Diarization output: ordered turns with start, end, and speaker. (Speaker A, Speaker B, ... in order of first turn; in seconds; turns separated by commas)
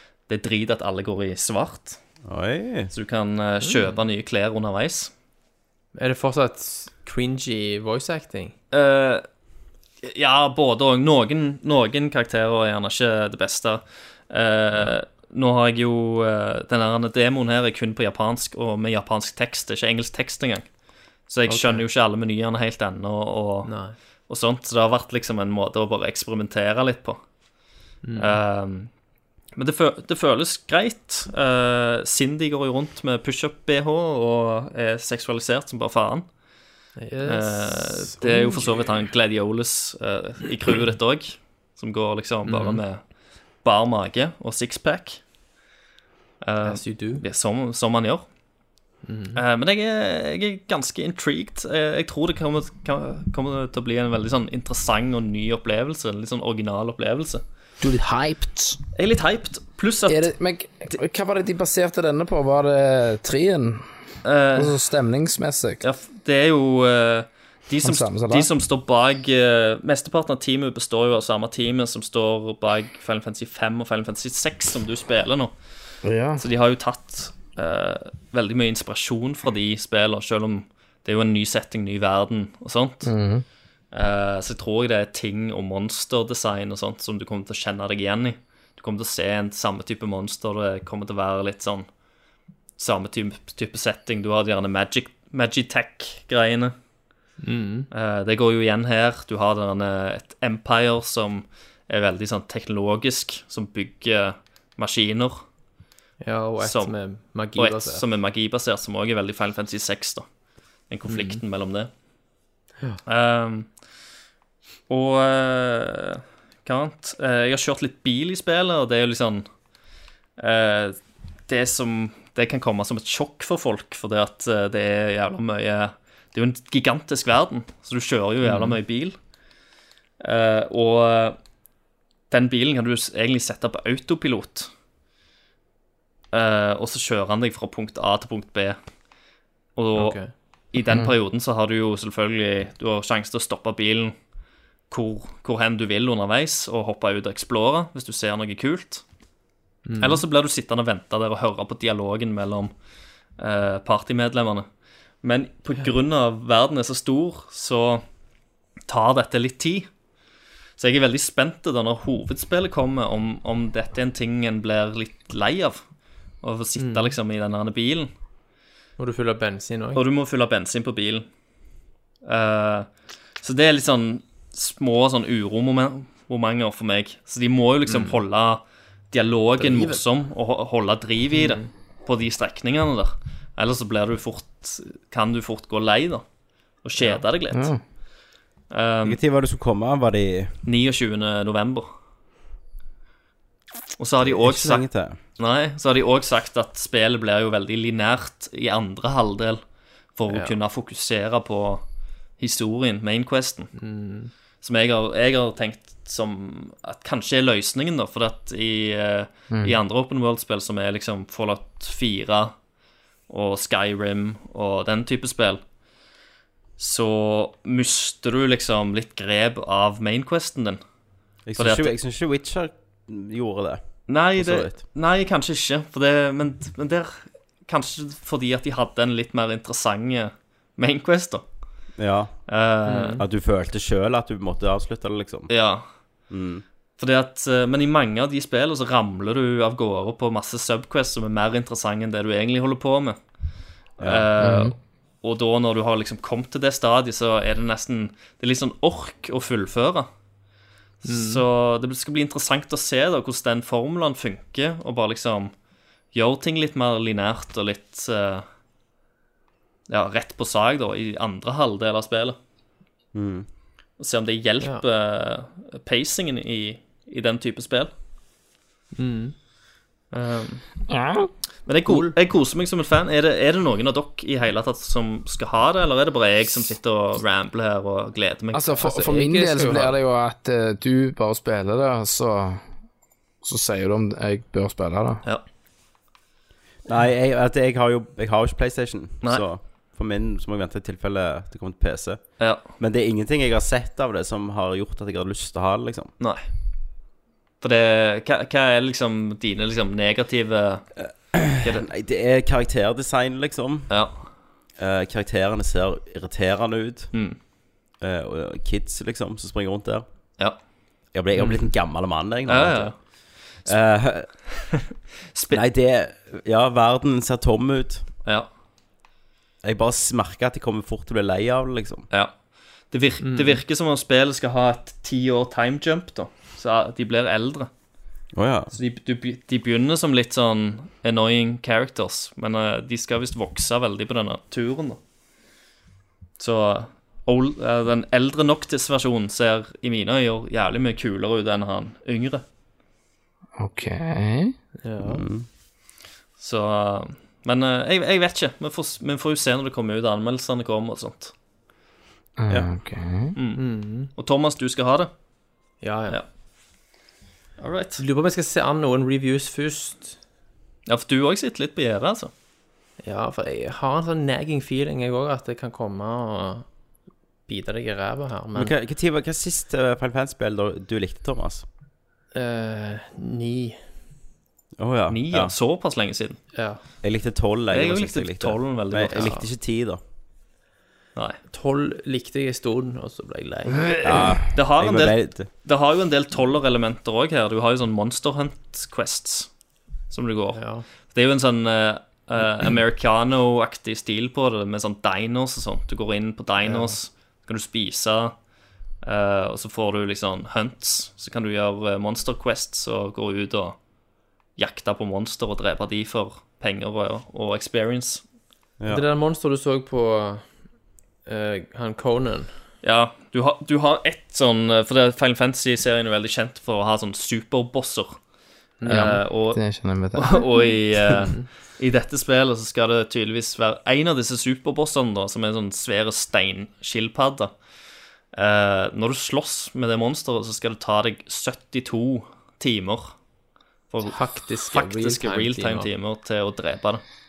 Speaker A: 0.3-2.0, Speaker B: 2.2-2.9, Speaker A: 2.9-5.1, Speaker C: 3.6-4.0, Speaker C: 6.0-8.6, Speaker A: 8.7-9.2, Speaker A: 10.0-20.7, Speaker A: 21.3-23.7, Speaker C: 21.5-21.8, Speaker C: 23.6-24.0, Speaker A: 24.3-27.2, Speaker C: 28.0-28.4, Speaker A: 28.2-28.9, Speaker A: 29.6-36.3, Speaker C: 37.0-38.9, Speaker A: 37.3-43.0, Speaker C: 42.5-42.8, Speaker A: 43.6-45.2, Speaker A: 46.4-48.2, Speaker C: 46.6-47.2, Speaker C: 49.1-49.4, Speaker A: 49.4-57.4, Speaker D: 57.8-58.8, Speaker A: 59.0-60.3, Speaker D: 60.1-63.8, Speaker A: 64.2-64.8, Speaker D: 64.6-65.8, Speaker A: 65.8-75.5, Speaker D: 67.8-68.5, Speaker D: 76.0-76.4, Speaker A: 76.4-83.1, Speaker D: 83.0-83.4, Speaker A: 83.9-91.9, Speaker A: 92.8-96.8, Speaker C: 97.4-97.9, Speaker A: 97.9-105.4, Speaker C: 106.2-108.0, Speaker A: 106.6-106.9, Speaker A: 107.5-110.2, Speaker A: 110.9-111.9, Speaker C: 111.1-111.4, Speaker A: 113.1-113.7, Speaker A: 114.9-119.5, Speaker A: 120.4-121.0, Speaker A: 121.5-129.2, Speaker C: 128.4-128.8, Speaker A: 130.2-131.4, Speaker A: 132.3-134.7, Speaker A: 136.3-138.8, Speaker A: 139.8-140.2, Speaker C: 140.0-140.3, Speaker A: 140.7-144.2, Speaker D: 140.9-141.1, Speaker A: 144.9-149.0, Speaker C: 149.9-150.2, Speaker A: 150.0-152.7, Speaker A: 153.4-154.7, Speaker A: 155.2-158.0, Speaker A: 158.9-159.9, Speaker A: 160.8-165.8, Speaker A: 166.4-168.1, Speaker C: 166.8-167.2, Speaker C: 169.0-170.0, Speaker A: 169.9-171.3, Speaker A: 172.2-172.9, Speaker A: 173.4-186.2, Speaker C: 177.9-178.2, Speaker C: 179.6-180.0, Speaker C: 181.3-181.7, Speaker A: 186.8-187.7, Speaker C: 187.0-187.2, Speaker D: 187.5-187.8, Speaker A: 188.7-189.2, Speaker B: 189.0-190.6, Speaker A: 190.7-191.9, Speaker A: 194.0-194.9, Speaker B: 194.2-195.2, Speaker A: 195.4-199.6, Speaker A: 200.2-201.8, Speaker C: 200.3-200.6, Speaker A: 202.4-203.7, Speaker C: 203.8-204.3, Speaker A: 204.6-212.5, Speaker D: 209.5-209.8, Speaker A: 213.3-215.6, Speaker A: 216.8-220.8, Speaker B: 221.5-223.8, Speaker A: 221.6-221.9, Speaker A: 224.1-231.4, Speaker B: 224.4-224.7, Speaker B: 232.0-232.3, Speaker A: 232.5-233.2, Speaker C: 232.9-233.2, Speaker B: 233.2-235.5, Speaker A: 235.5-235.8, Speaker B: 236.3-236.6, Speaker A: 237.0-243.2, Speaker A: 244.0-250.1, Speaker B: 244.0-244.3, Speaker D: 244.4-244.8, Speaker A: 251.0-255.5, Speaker C: 251.1-251.4, Speaker A: 256.1-258.4, Speaker A: 259.9-262.4, Speaker B: 263.1-263.5, Speaker A: 264.0-267.9, Speaker C: 269.0-269.3, Speaker A: 270.1-270.6, Speaker D: 270.9-271.3, Speaker A: 271.7-278.9, Speaker C: 271.9-272.2, Speaker D: 278.5-282.6, Speaker C: 278.8-279.9, Speaker D: 283.4-285.2, Speaker B: 286.9-292.2, Speaker B: 292.8-296.1, Speaker A: 297.6-300.9, Speaker B: 301.0-303.9, Speaker A: 301.6-301.9, Speaker A: 303.9-304.2, Speaker B: 304.8-307.1, Speaker B: 308.0-310.1, Speaker B: 311.1-312.9, Speaker A: 312.5-313.0, Speaker B: 313.7-314.3, Speaker A: 315.4-315.6, Speaker B: 315.5-318.1, Speaker B: 319.6-322.1, Speaker A: 322.9-327.7, Speaker C: 323.2-323.6, Speaker B: 328.3-328.7, Speaker A: 328.7-335.0, Speaker A: 336.4-342.4, Speaker D: 343.6-344.5, Speaker C: 344.8-345.2, Speaker B: 345.0-345.5, Speaker A: 346.4-351.3, Speaker D: 352.4-353.4, Speaker A: 353.4-355.1, Speaker C: 353.6-354.1, Speaker C: 355.8-356.2, Speaker A: 357.6-358.0, Speaker C: 358.0-360.2, Speaker A: 360.9-362.3, Speaker C: 363.0-366.7, Speaker C: 367.5-368.7, Speaker B: 368.6-371.6, Speaker C: 372.3-373.8, Speaker B: 374.8-375.5, Speaker A: 375.1-376.4, Speaker C: 376.5-376.8, Speaker B: 377.0-380.0, Speaker A: 377.7-379.4, Speaker C: 379.1-379.4, Speaker C: 381.5-383.9, Speaker B: 384.0-385.5, Speaker A: 384.5-389.5, Speaker A: 390.1-398.3, Speaker C: 390.6-390.9, Speaker C: 396.6-397.0, Speaker A: 399.0-403.8, Speaker A: 404.6-408.2, Speaker B: 408.8-409.1, Speaker C: 408.9-410.4, Speaker C: 411.3-412.5, Speaker A: 412.8-418.2, Speaker C: 418.8-419.1, Speaker A: 418.8-419.6, Speaker D: 418.9-420.7, Speaker A: 420.1-427.5, Speaker A: 428.3-433.1, Speaker A: 433.9-437.0, Speaker C: 434.1-435.9